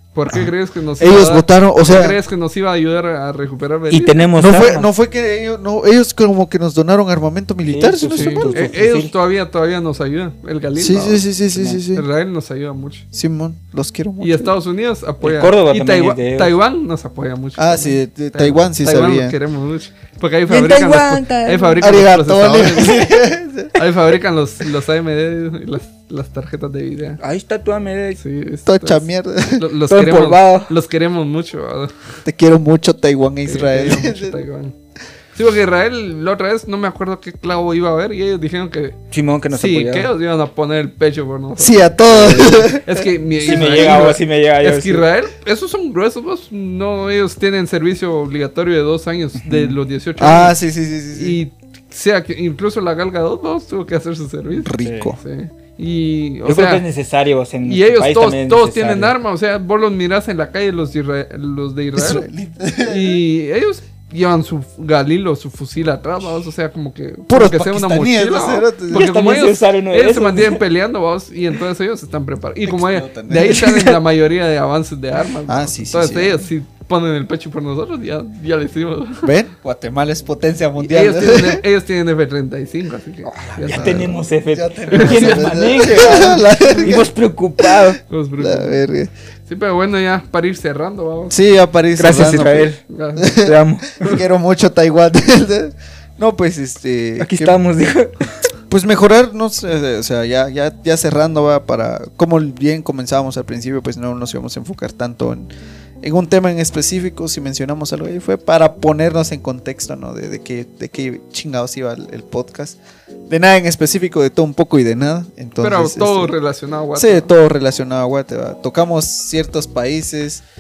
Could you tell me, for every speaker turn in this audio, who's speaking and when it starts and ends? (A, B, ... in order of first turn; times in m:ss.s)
0:00.1-0:04.3 A
0:00.3-0:02.2 B
0:03.9-0:04.9 C
0:04.4-0:08.8 B
0:07.7-0:09.1 C
0:08.1-0:13.0 A
0:10.8-0:12.0 B
0:13.1-0:14.5 B
0:14.2-0:23.1 A
0:15.2-0:16.5 C
0:17.6-0:19.3 B
0:20.5-0:21.8 C
0:21.8-0:23.8 B
0:23.8-0:27.2 A
0:27.2-0:28.2 C
0:28.2-0:29.1 A
0:28.6-0:29.7 B
0:29.6-0:32.0 A
0:29.9-0:30.7 C
0:32.2-0:34.4 B
0:33.4-0:34.7 A
0:35.3-0:39.0 A
0:39.1-0:40.1 C
0:39.5-0:50.6 A
0:41.6-0:44.0 B
0:43.4-0:45.1 C
0:50.2-0:51.4 B
0:51.1-0:56.8 A
0:54.6-0:55.2 B
0:54.8-0:55.1 C
0:56.4-0:59.1 C
0:57.6-1:02.2 A
1:01.9-1:03.2 B
1:02.8-1:19.3 A
1:07.3-1:09.1 B
1:08.9-1:10.6 C
1:12.6-1:14.0 B
1:13.4-1:13.7 C
1:15.5-1:16.5 B
1:19.2-1:21.6 B
1:20.8-1:24.2 A
1:23.2-1:28.0 C
1:23.7-1:27.1 B
1:24.9-1:26.4 A
1:28.1-1:28.8 A
1:28.4-1:29.1 B
1:29.5-1:31.3 A
1:31.3-1:37.6 B
1:32.0-1:32.8 C
1:32.9-1:33.3 A
1:33.4-1:34.2 C
1:37.2-1:38.4 C
1:38.7-1:45.5 B
1:46.0-1:52.8 B
1:53.3-1:56.3 B
1:55.6-1:57.3 A
1:57.0-2:00.4 B